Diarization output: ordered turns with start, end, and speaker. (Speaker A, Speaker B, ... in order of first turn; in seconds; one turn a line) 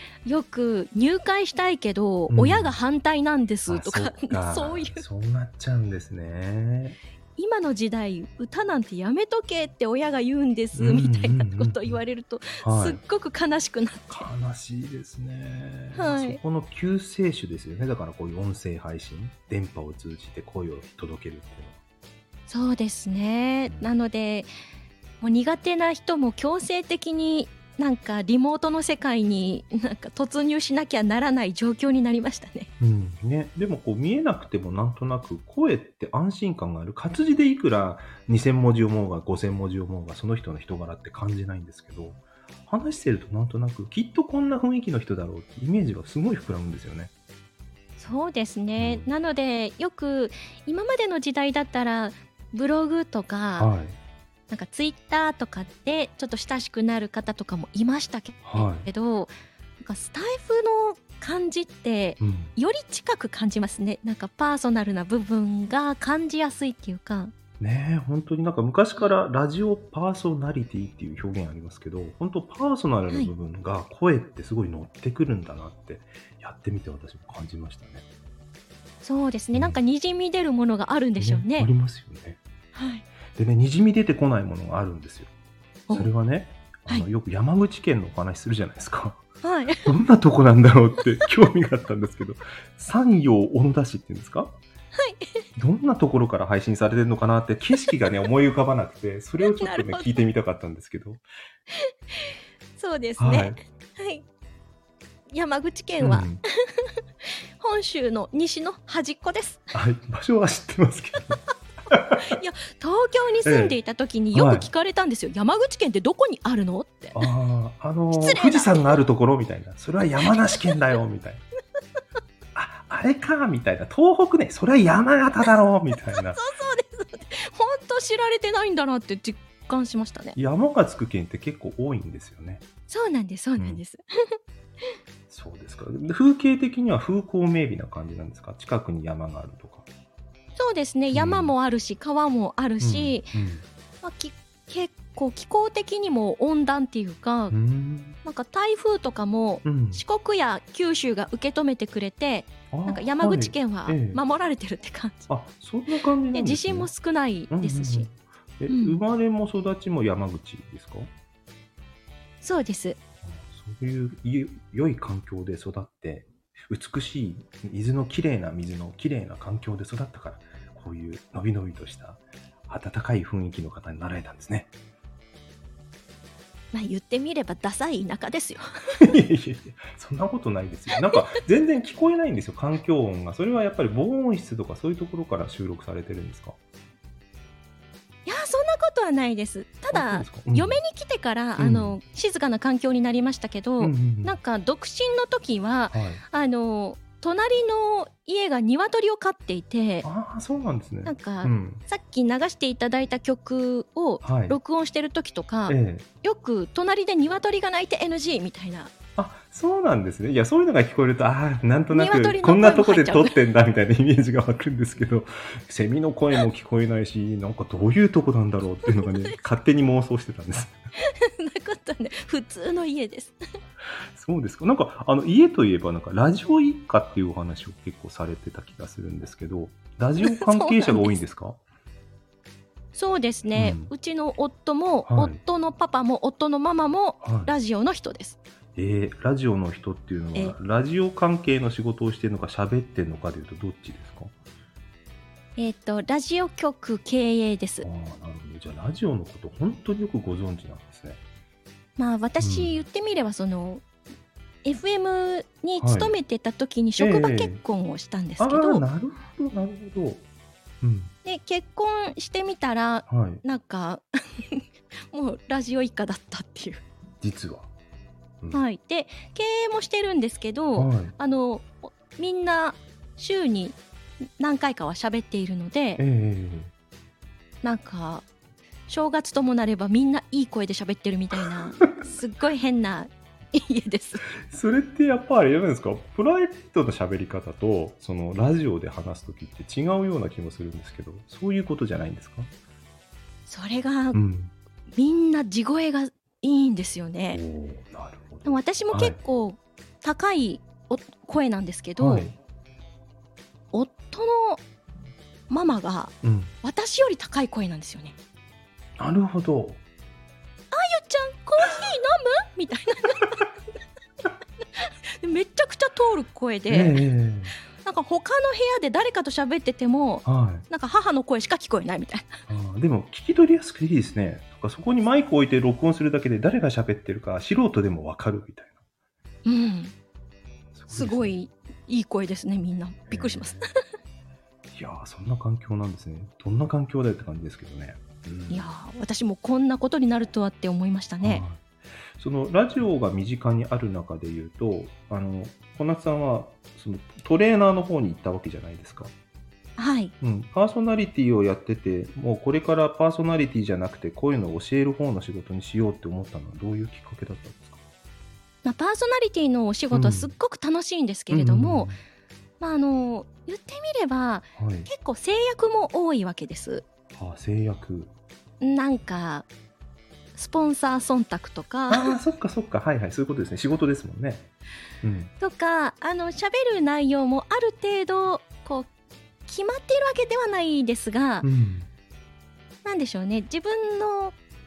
Speaker A: 0.2-5.0
Speaker B: 2.3-2.8
Speaker B: 3.7-7.0
Speaker A: 7.4-14.3
Speaker B: 10.8-12.0
Speaker B: 12.6-13.0
Speaker B: 14.1-21.8
Speaker A: 15.9-16.4
Speaker A: 22.5-24.5
Speaker B: 23.7-23.9
Speaker A: 25.2-32.7
Speaker B: 32.8-47.1
Speaker A: 48.0-53.7
Speaker B: 48.8-49.1
Speaker B: 53.6-54.0
Speaker A: 54.5-67.3
Speaker B: 58.5-58.9
Speaker B: 62.2-62.5
Speaker B: 67.6-78.0
Speaker A: 79.0-81.7
Speaker B: 79.5-79.8
Speaker B: 81.2-82.4
Speaker A: 82.8-83.0
Speaker B: 83.3-85.3
Speaker B: 85.9-89.2
Speaker A: 89.4-89.9
Speaker B: 89.8-94.6
Speaker A: 95.0-95.4
Speaker B: 95.6-101.2
Speaker A: 99.4-100.2
Speaker A: 101.7-104.3
Speaker B: 103.2-103.6
Speaker A: 105.3-109.7
Speaker B: 106.0-106.4
Speaker B: 109.7-112.3
Speaker A: 112.2-117.2
Speaker B: 113.4-113.8
Speaker B: 114.3-114.7
Speaker B: 117.2-121.4
Speaker A: 118.1-119.0
Speaker B: 122.5-126.4
Speaker A: 126.2-130.4
Speaker B: 130.4-132.7
Speaker A: 132.9-134.4
Speaker B: 133.6-133.8
Speaker B: 135.3-139.9
Speaker A: 140.6-143.3
Speaker B: 141.1-141.5
Speaker B: 142.8-143.7
Speaker A: 144.0-147.6
Speaker B: 147.5-148.2
Speaker A: 148.2-155.3
Speaker B: 149.6-150.0
Speaker B: 152.7-154.2
Speaker B: 155.3-156.9
Speaker A: 156.3-158.1
Speaker B: 157.5-161.1
Speaker A: 158.7-159.0
Speaker A: 162.4-163.0
Speaker B: 163.2-174.7
Speaker A: 176.7-178.6
Speaker B: 179.0-186.6
Speaker A: 188.3-200.1
Speaker B: 189.9-190.8
Speaker B: 191.6-192.0
Speaker B: 193.8-194.4
Speaker B: 195.9-196.2
Speaker B: 200.0-201.8
Speaker A: 201.1-208.9
Speaker B: 204.2-204.6
Speaker B: 205.7-206.1
Speaker B: 209.2-220.8
Speaker A: 211.9-213.4
Speaker A: 221.1-223.4
Speaker B: 224.1-231.6
Speaker A: 230.2-231.2
Speaker A: 232.9-238.4
Speaker B: 233.6-233.9
Speaker B: 235.1-235.4
Speaker B: 237.2-237.5
Speaker B: 238.8-244.3
Speaker A: 245.6-247.9
Speaker B: 247.8-251.2
Speaker A: 252.0-253.8
Speaker B: 252.4-252.8
Speaker A: 254.6-258.9
Speaker B: 255.8-256.1
Speaker B: 257.0-257.6
Speaker B: 258.4-260.2
Speaker B: 260.8-261.1
Speaker A: 261.2-266.8
Speaker B: 263.1-263.4
Speaker B: 267.2-267.7
Speaker A: 268.5-273.8
Speaker B: 270.8-271.1
Speaker A: 274.4-276.0
Speaker B: 276.0-276.7
Speaker A: 277.6-278.3
Speaker A: 278.9-284.3
Speaker B: 284.4-292.5
Speaker A: 293.5-294.2
Speaker B: 294.1-294.5
Speaker A: 294.9-297.4
Speaker B: 297.3-299.2
Speaker A: 298.4-302.3
Speaker B: 302.0-302.4
Speaker A: 303.7-304.6
Speaker A: 305.5-308.1
Speaker B: 306.2-306.5
Speaker B: 309.0-309.8
Speaker A: 310.7-313.5
Speaker A: 314.8-317.0
Speaker B: 316.7-317.5
Speaker A: 317.8-322.3
Speaker B: 320.2-320.7
Speaker B: 322.5-328.7
Speaker A: 329.5-329.9
Speaker B: 330.7-331.4
Speaker A: 330.9-333.8
Speaker B: 333.1-333.6
Speaker B: 334.7-338.7
Speaker A: 338.5-341.4
Speaker B: 341.2-341.6
Speaker B: 342.2-349.1
Speaker A: 349.8-350.1
Speaker B: 350.2-357.8
Speaker A: 358.6-361.9
Speaker B: 359.9-360.3
Speaker B: 361.3-362.0
Speaker A: 362.6-366.9
Speaker B: 364.6-364.9
Speaker B: 367.1-368.1
Speaker A: 368.6-369.5
Speaker A: 370.4-372.2
Speaker B: 371.9-374.5
Speaker B: 375.0-375.3
Speaker A: 375.4-378.9
Speaker A: 379.5-381.5
Speaker B: 381.4-381.9
Speaker A: 382.9-384.4